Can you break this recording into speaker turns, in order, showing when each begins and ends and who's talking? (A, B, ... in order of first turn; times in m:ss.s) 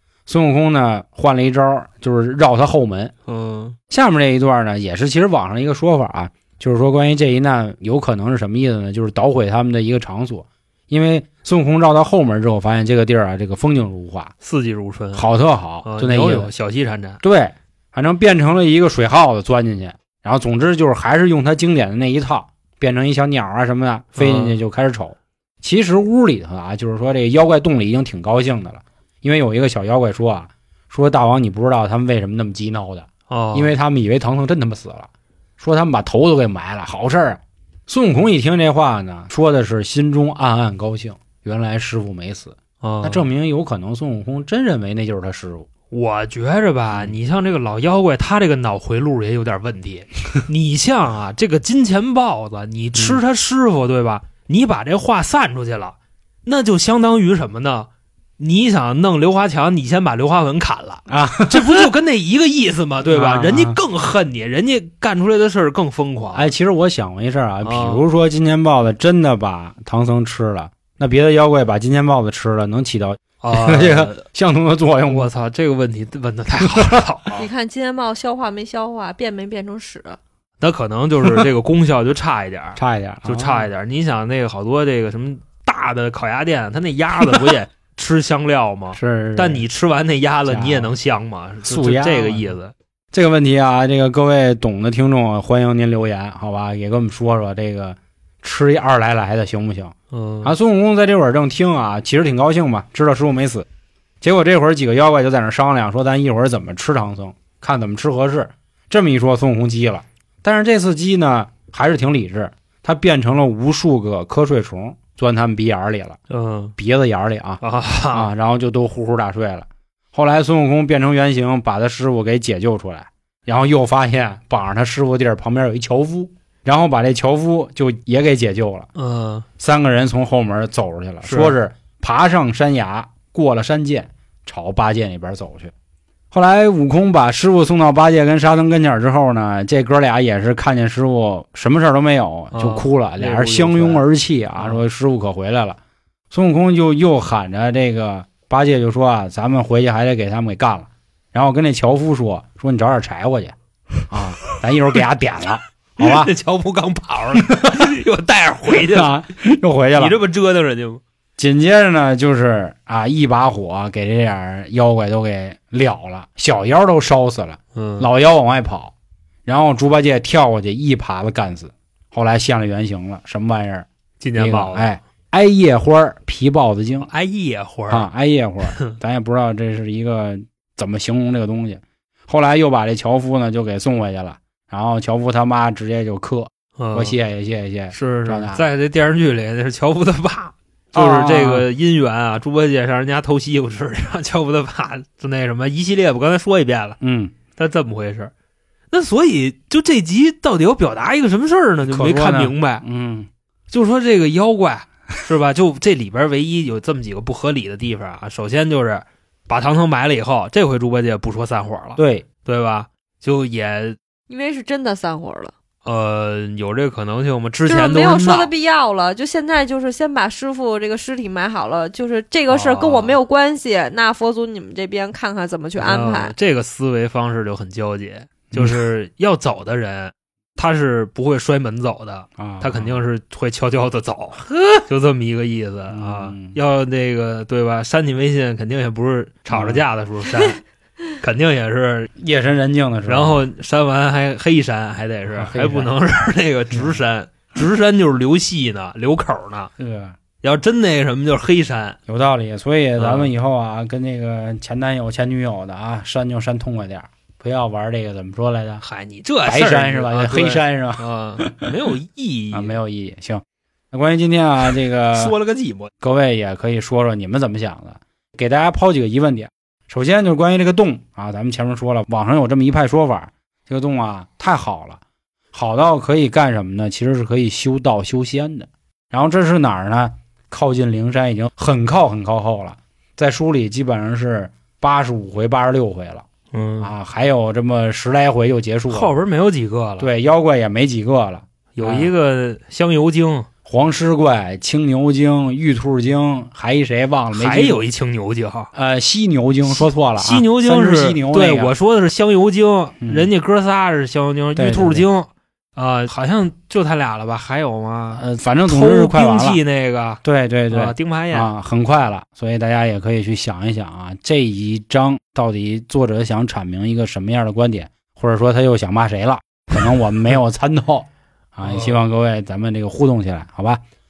0:00.3-0:03.1 A
0:03.3-0:03.8 B
0:03.9-0:14.3 A
0:14.4-0:15.3 B
0:15.1-0:16.5 A
0:15.8-0:17.2 B
0:17.2-0:45.7 A
0:24.2-0:24.6 B
0:33.3-0:33.7 B
0:42.8-0:43.2 B
0:45.9-1:06.5 B
0:53.0-0:53.2 A
1:01.1-1:01.9 A
1:03.0-1:03.8 A
1:06.3-1:15.3 A
1:07.6-1:08.0 B
1:13.4-1:14.2 B
1:15.0-1:17.4 B
1:16.6-1:17.0 A
1:17.4-1:20.2 C
1:20.6-1:32.7 B
1:22.8-1:23.7 A
1:27.2-1:27.5 A
1:28.9-1:29.6 A
1:30.5-1:30.9 A
1:31.6-1:32.5 A
1:33.1-1:43.7 A
1:40.1-1:40.5 B
1:44.2-1:56.2 A
1:56.3-1:56.7 B
1:56.8-2:08.9 A
1:57.6-1:58.3 B
2:09.0-2:09.4 B
2:09.6-2:15.7 A
2:11.2-2:11.5 B
2:16.3-2:25.8 A
2:22.5-2:24.0 B
2:24.6-2:24.8 B
2:26.3-2:33.5 A
2:34.1-2:36.3 A
2:36.0-2:39.1 B
2:37.4-2:37.9 A
2:38.7-2:40.2 A
2:39.9-2:41.0 B
2:41.4-2:48.9 A
2:47.7-2:48.1 B
2:49.4-2:57.1 A
2:54.2-2:54.9 B
2:57.0-2:58.1 B
2:57.9-3:08.6 A
2:58.7-2:59.0 B
3:06.8-3:07.2 B
3:07.9-3:17.0 B
3:10.9-3:11.6 A
3:17.0-3:17.3 A
3:17.6-3:18.3 B
3:18.9-3:22.8 B
3:21.9-3:23.3 A
3:23.7-3:34.0 B
3:32.0-3:32.2 A
3:34.3-3:35.5 C
3:35.8-3:38.5 B
3:37.7-3:46.3 C
3:42.5-3:43.2 B
3:45.8-4:00.6 B
3:48.5-3:48.8 A
3:52.4-3:53.0 A
3:55.9-3:56.6 A
3:59.5-3:59.8 A
4:01.2-4:02.1 B
4:02.2-4:03.4 A
4:03.1-4:09.7 B
4:05.3-4:05.9 A
4:09.8-4:10.2 A
4:10.4-4:12.0 B
4:12.1-4:18.8 A
4:13.0-4:13.3 B
4:18.8-4:22.7 B
4:19.4-4:21.7 A
4:22.5-4:25.3 A
4:25.1-4:25.9 B
4:26.0-4:35.0 A
4:35.5-4:46.2 A
4:46.5-4:46.9 B
4:46.8-4:49.1 A
4:48.9-4:50.1 B
4:50.0-4:52.1 A
4:51.7-4:53.5 B
4:53.6-4:57.8 A
4:57.3-4:58.7 B
4:58.7-5:01.7 A
4:59.7-5:11.5 B
5:03.0-5:03.3 A
5:04.6-5:05.0 A
5:08.2-5:09.6 A
5:10.2-5:23.8 A
5:21.7-5:22.0 B